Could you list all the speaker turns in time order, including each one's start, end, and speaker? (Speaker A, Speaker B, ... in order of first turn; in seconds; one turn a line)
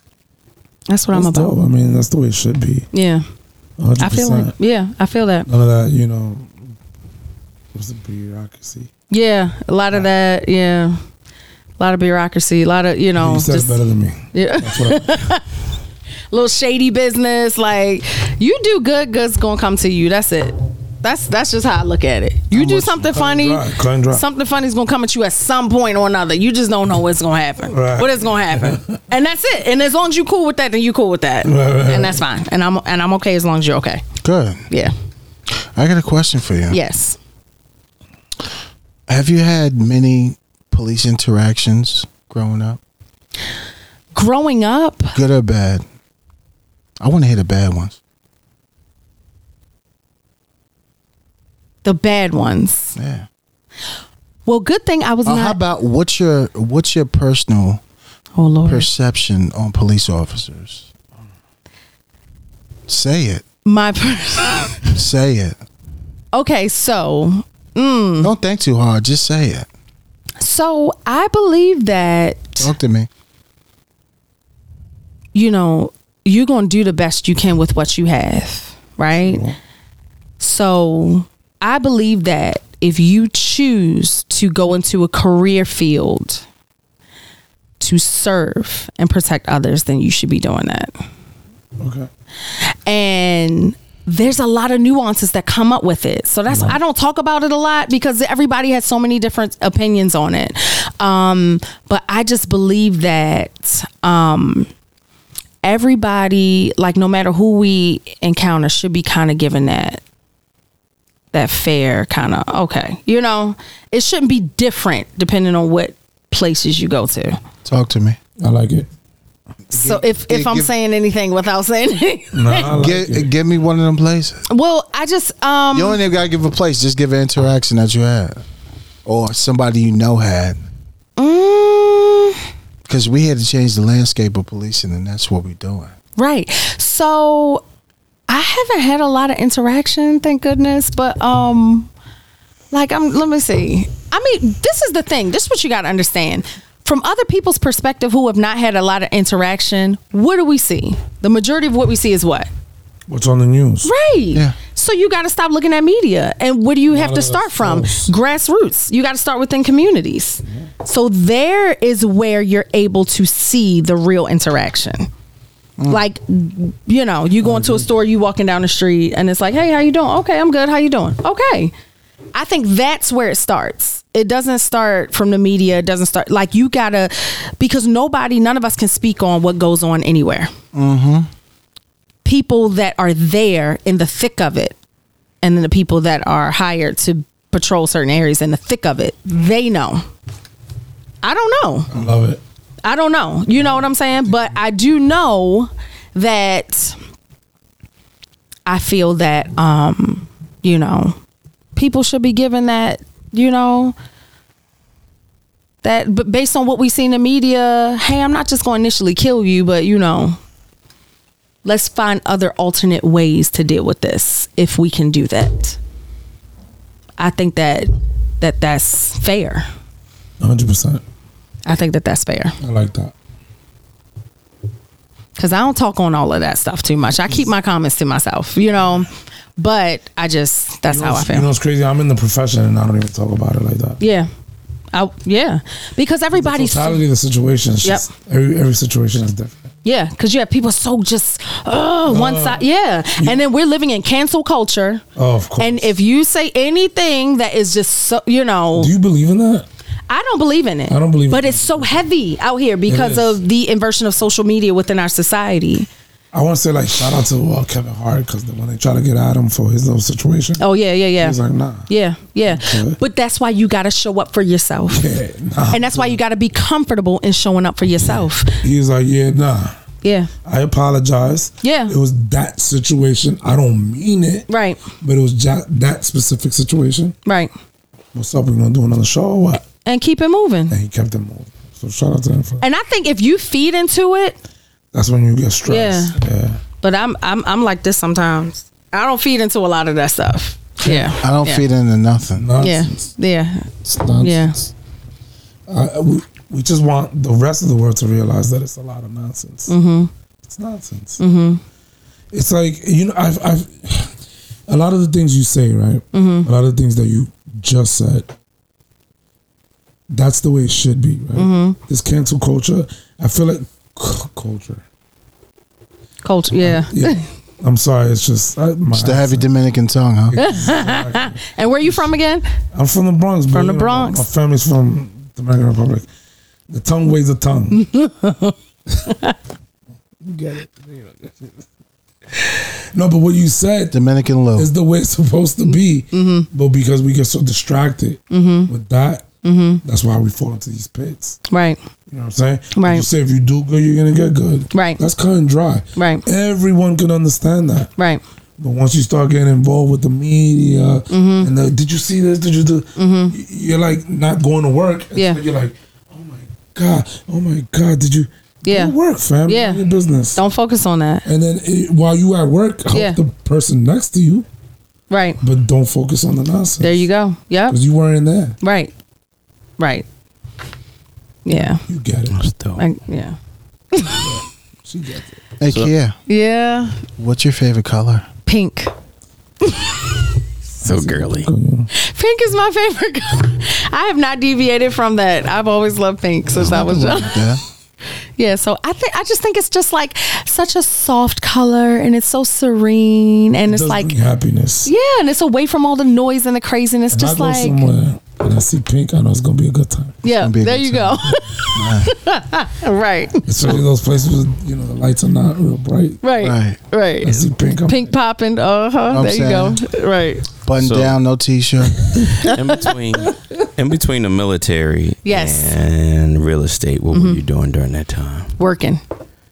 Speaker A: 0.9-1.5
Speaker B: 1.1-2.9
Speaker A: 2.9-3.2
Speaker B: 3.8-4.5
Speaker A: 4.0-5.5
Speaker B: 5.5-6.5
Speaker B: 7.7-8.9
Speaker A: 9.1-11.0
Speaker A: 11.8-13.8
Speaker B: 13.2-15.3
Speaker A: 14.3-15.4
Speaker A: 16.3-34.0
Speaker B: 22.5-24.2
Speaker B: 27.7-29.0
Speaker B: 31.4-32.2
Speaker C: 34.2-34.6
Speaker C: 35.5-36.8
Speaker A: 36.7-37.2
Speaker C: 39.1-42.8
Speaker A: 44.1-45.1
Speaker C: 45.1-45.8
Speaker C: 47.0-48.0
Speaker A: 51.8-53.0
Speaker C: 53.0-53.3
Speaker A: 54.5-55.6
Speaker C: 55.2-57.8
Speaker A: 58.4-58.9
Speaker C: 58.6-60.9
Speaker C: 62.9-63.4
Speaker A: 63.6-64.9
Speaker C: 64.9-65.6
Speaker A: 66.3-68.3
Speaker C: 68.2-69.7
Speaker A: 70.4-72.7
Speaker C: 72.6-73.1
Speaker A: 75.3-79.4
Speaker B: 79.2-79.6
Speaker A: 80.4-86.4
Speaker A: 87.8-90.9
Speaker B: 91.8-92.1
Speaker A: 92.5-104.7
Speaker B: 96.5-96.8
Speaker A: 105.6-110.0
Speaker A: 111.3-117.4
Speaker C: 117.6-118.2
Speaker B: 118.4-118.9
Speaker A: 119.7-122.7
Speaker C: 119.7-120.7
Speaker B: 122.3-123.3
Speaker C: 122.7-124.4
Speaker A: 124.5-126.0
Speaker C: 125.7-128.4
Speaker C: 129.1-130.6
Speaker A: 131.2-132.4
Speaker C: 132.9-135.9
Speaker A: 136.2-137.6
Speaker A: 138.3-141.9
Speaker A: 142.7-152.5
Speaker B: 153.1-153.9
Speaker A: 153.8-165.1
Speaker B: 156.9-158.1
Speaker A: 165.9-171.7
Speaker B: 167.4-167.9
Speaker A: 172.3-180.5
Speaker C: 180.7-181.3
Speaker A: 182.2-184.8
Speaker A: 185.4-190.0
Speaker A: 191.2-191.9
Speaker B: 191.9-192.4
Speaker A: 192.8-197.0
Speaker A: 198.7-201.2
Speaker A: 201.8-203.9
Speaker A: 205.8-210.4
Speaker A: 211.6-215.8
Speaker A: 217.2-219.7
Speaker B: 220.4-221.0
Speaker A: 221.7-222.6
Speaker B: 222.6-223.1
Speaker A: 225.4-231.5
Speaker B: 230.9-234.0
Speaker A: 234.0-234.3
Speaker A: 234.9-237.0
Speaker B: 236.4-239.7
Speaker A: 239.8-245.0
Speaker B: 242.1-242.6
Speaker B: 245.2-245.9
Speaker A: 245.6-248.9
Speaker B: 248.8-249.7
Speaker A: 250.1-255.9
Speaker B: 250.9-252.0
Speaker B: 252.9-253.4
Speaker B: 256.3-260.6
Speaker A: 260.6-265.1
Speaker B: 261.2-261.9
Speaker B: 262.5-263.0
Speaker B: 264.9-266.2
Speaker A: 265.7-268.6
Speaker B: 268.6-269.7
Speaker A: 270.0-270.3
Speaker B: 270.4-274.5
Speaker A: 271.6-271.9
Speaker A: 274.5-274.8
Speaker B: 275.0-277.1
Speaker A: 277.2-277.5
Speaker B: 278.1-279.6
Speaker A: 279.9-280.7
Speaker B: 280.7-282.6
Speaker A: 282.6-284.4
Speaker B: 284.9-286.6
Speaker A: 285.7-286.2
Speaker A: 286.8-291.6
Speaker B: 290.8-291.1
Speaker C: 291.2-292.5
Speaker B: 292.4-293.1
Speaker A: 292.6-294.6
Speaker B: 293.9-294.7
Speaker B: 295.7-299.7
Speaker A: 299.7-300.1
Speaker B: 300.4-301.2
Speaker A: 301.2-301.6
Speaker B: 302.3-304.1
Speaker B: 304.7-308.3
Speaker A: 306.1-306.5
Speaker B: 310.1-314.8
Speaker A: 311.4-311.8
Speaker A: 316.2-317.2
Speaker B: 316.6-319.5
Speaker C: 318.9-320.4
Speaker B: 320.3-322.0
Speaker A: 320.4-322.5
Speaker B: 322.7-326.1
Speaker A: 323.5-324.2
Speaker B: 326.7-327.9
Speaker A: 327.7-328.5
Speaker A: 329.1-329.4
Speaker B: 330.2-331.5
Speaker B: 332.3-333.9
Speaker C: 333.9-334.7
Speaker B: 334.6-339.2
Speaker A: 336.1-336.5
Speaker A: 338.3-338.7
Speaker A: 339.4-339.8
Speaker B: 339.8-341.4
Speaker A: 341.5-341.8
Speaker B: 342.1-347.9
Speaker A: 342.7-343.1
Speaker A: 344.7-345.0
Speaker A: 346.0-346.2
Speaker B: 348.6-360.4
Speaker A: 351.1-351.5
Speaker A: 353.0-353.4
Speaker A: 355.1-355.4
Speaker A: 358.6-358.9
Speaker A: 359.5-359.8
Speaker A: 360.4-361.2
Speaker B: 361.2-364.5
Speaker A: 362.9-363.2
Speaker A: 365.1-365.4
Speaker B: 365.4-367.1
Speaker A: 366.8-367.8
Speaker B: 367.7-368.6
Speaker A: 368.6-368.9
Speaker A: 369.8-370.1
Speaker A: 371.4-371.8
Speaker B: 371.9-372.4
Speaker D: 372.3-372.8
Speaker A: 372.8-373.4
Speaker A: 373.9-374.3
Speaker B: 374.1-375.4
Speaker C: 375.6-376.1
Speaker A: 376.3-377.0
Speaker C: 377.2-378.2
Speaker A: 378.5-378.9
Speaker A: 379.6-380.3
Speaker D: 380.8-381.5
Speaker B: 380.8-381.9
Speaker A: 381.9-387.4
Speaker C: 386.6-387.6
Speaker A: 388.4-394.1
Speaker B: 393.7-394.9
Speaker A: 394.9-397.9
Speaker B: 397.1-400.2
Speaker A: 400.2-403.8
Speaker C: 400.4-402.1
Speaker B: 403.5-406.2
Speaker A: 406.2-410.5
Speaker C: 406.4-406.8
Speaker B: 407.2-408.1
Speaker C: 409.1-409.8
Speaker C: 410.6-412.1
Speaker D: 410.8-411.1
Speaker A: 412.4-412.9
Speaker D: 412.4-418.5
Speaker A: 415.2-415.8
Speaker A: 417.1-417.4
Speaker A: 418.6-419.0